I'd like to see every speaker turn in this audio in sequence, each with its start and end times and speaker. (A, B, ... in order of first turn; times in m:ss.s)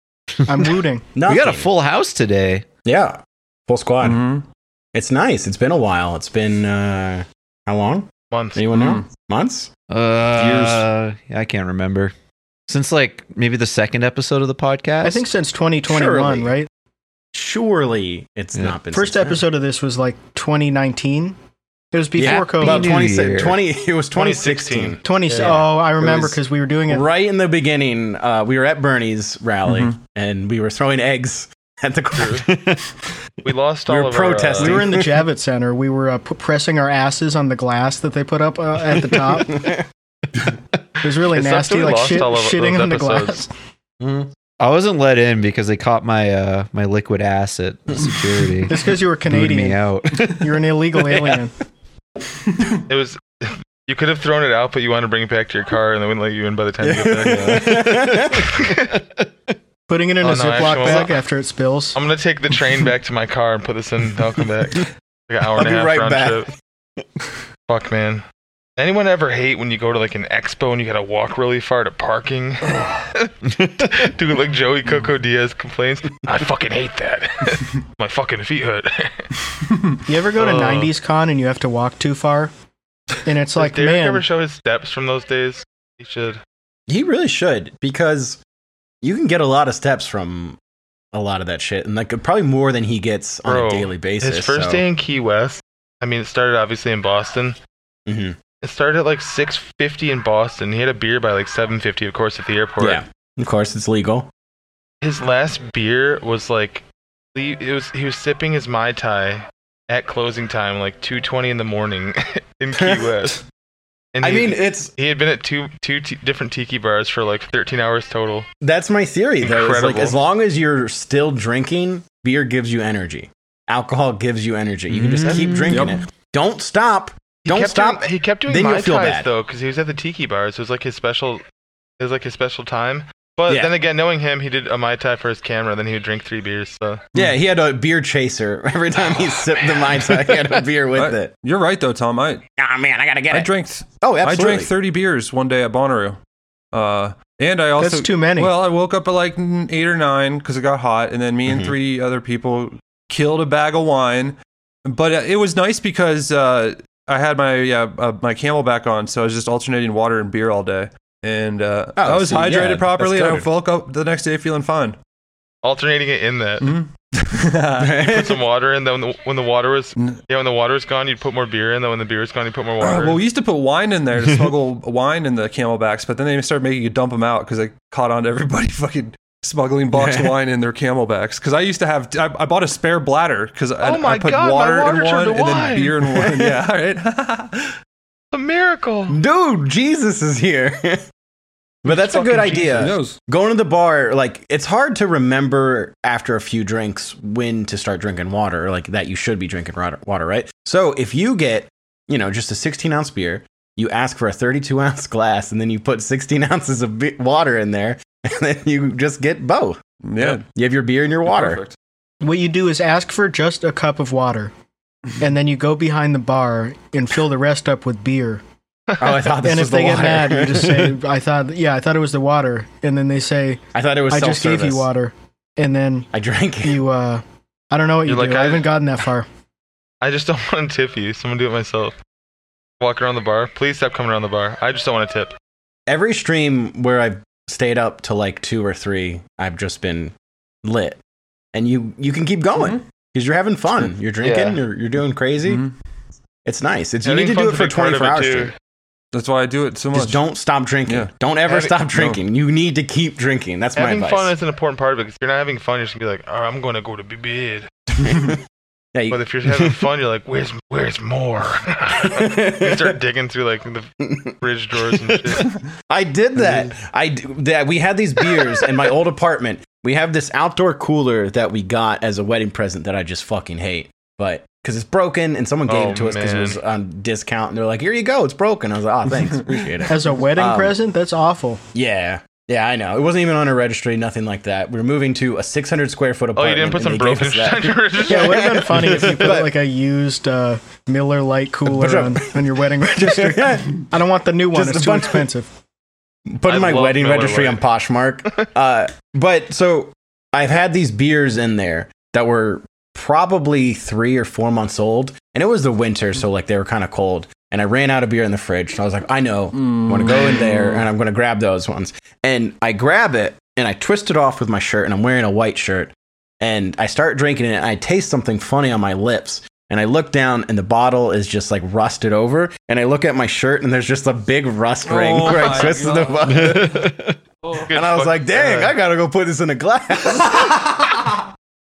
0:00.5-0:01.0 A
0:01.1-0:01.7 B
0:01.2-0:02.6 C
0:02.8-0:04.2 B
0:04.0-0:04.4 D
0:04.9-0:09.7 B
0:08.3-0:08.6 E
0:08.7-0:09.0 D
0:09.9-0:12.1 C
0:10.4-0:10.8 D
0:12.7-0:15.2 C
0:15.0-0:16.7 A
0:15.9-0:16.5 B
0:17.3-0:19.4 B
0:18.9-0:21.4 A
0:21.9-0:23.0 A
0:22.2-0:32.5 B
0:22.2-0:23.6 C
0:24.1-0:25.6 E
0:25.0-0:27.0 A
0:29.6-0:29.9 D
0:32.2-0:32.5 E
0:32.5-0:32.8 C
0:33.4-0:34.8 E
0:33.9-0:35.2 B
0:34.6-0:39.6 A
0:39.5-0:39.8 B
0:41.0-0:43.5 A
0:41.3-0:43.4 E
0:44.0-0:44.3 B
0:44.6-0:50.5 C
0:48.7-0:51.5 A
0:52.9-0:57.8 E
0:56.8-0:58.6 B
0:57.7-0:59.3 C
0:59.9-1:02.0 A
1:00.2-1:01.2 E
1:01.9-1:06.5 E
1:05.5-1:06.5 B
1:07.7-1:08.2 E
1:08.8-1:19.3 E
1:20.0-1:22.5 A
1:20.3-1:20.9 E
1:23.2-1:24.2 A
1:23.5-1:26.4 E
1:26.9-1:28.4 B
1:29.0-1:30.6 B
1:31.1-1:34.8 B
1:33.4-1:37.6 E
1:38.1-1:38.4 B
1:38.6-1:43.0 E
1:42.8-1:44.3 B
1:45.0-1:46.8 E
1:47.3-1:53.4 E
1:52.8-1:53.3 B
1:54.1-1:58.4 E
1:54.2-1:54.9 B
1:58.6-2:09.3 B
1:59.4-2:00.2 E
2:04.9-2:06.0 D
2:07.4-2:11.4 E
2:12.0-2:17.0 E
2:13.5-2:13.7 B
2:17.1-2:21.3 B
2:20.9-2:22.4 D
2:22.6-2:23.5 B
2:23.3-2:26.2 D
2:24.0-2:24.7 B
2:26.7-2:45.0 D
2:27.8-2:28.5 A
2:31.5-2:31.7 B
2:42.0-2:43.4 B
2:45.6-2:46.6 E
2:46.6-2:47.9 D
2:47.8-2:48.4 B
2:48.0-2:53.2 E
2:52.8-3:07.7 D
2:59.9-3:00.3 B
3:03.8-3:06.0 E
3:06.1-3:06.6 B
3:08.3-3:09.2 E
3:09.1-3:11.0 B
3:11.8-3:31.6 B
3:11.8-3:13.2 D
3:12.3-3:12.7 E
3:30.0-3:30.4 D
3:31.2-3:31.7 D
3:32.2-3:34.5 A
3:35.2-3:38.4 A
3:39.0-3:40.9 B
3:39.4-3:46.1 A
3:43.7-3:44.8 B
3:46.1-3:46.8 B
3:46.6-3:49.3 A
3:48.0-3:48.6 E
3:50.0-3:51.9 E
3:52.8-3:55.3 E
3:55.9-4:00.1 B
4:00.6-4:01.0 B
4:01.5-4:05.6 B
4:02.6-4:02.8 D
4:04.2-4:04.6 E
4:05.4-4:05.7 D
4:06.4-4:08.5 B
4:07.0-4:08.5 E
4:09.1-4:10.2 D
4:09.9-4:14.3 B
4:11.4-4:11.8 E
4:11.9-4:12.2 D
4:13.7-4:17.7 E
4:17.9-4:18.4 B
4:18.9-4:19.7 B
4:19.1-4:23.9 E
4:22.0-4:23.0 B
4:24.0-4:24.3 B
4:24.4-4:25.4 E
4:24.9-4:25.4 B
4:25.9-4:40.8 B
4:35.6-4:36.6 E
4:39.9-4:41.6 A
4:41.7-4:49.5 B
4:46.4-4:48.5 E
4:48.0-4:55.5 A
4:51.7-4:52.4 B
4:53.0-4:53.9 B
4:54.5-4:55.3 B
4:56.3-5:26.9 B
4:56.4-4:57.6 E
5:09.5-5:10.9 D
5:24.8-5:26.7 D
5:25.2-5:25.7 E
5:26.3-5:27.1 C
5:27.4-5:27.7 D
5:27.7-5:28.8 E
5:27.7-5:30.6 B
5:30.1-5:31.2 D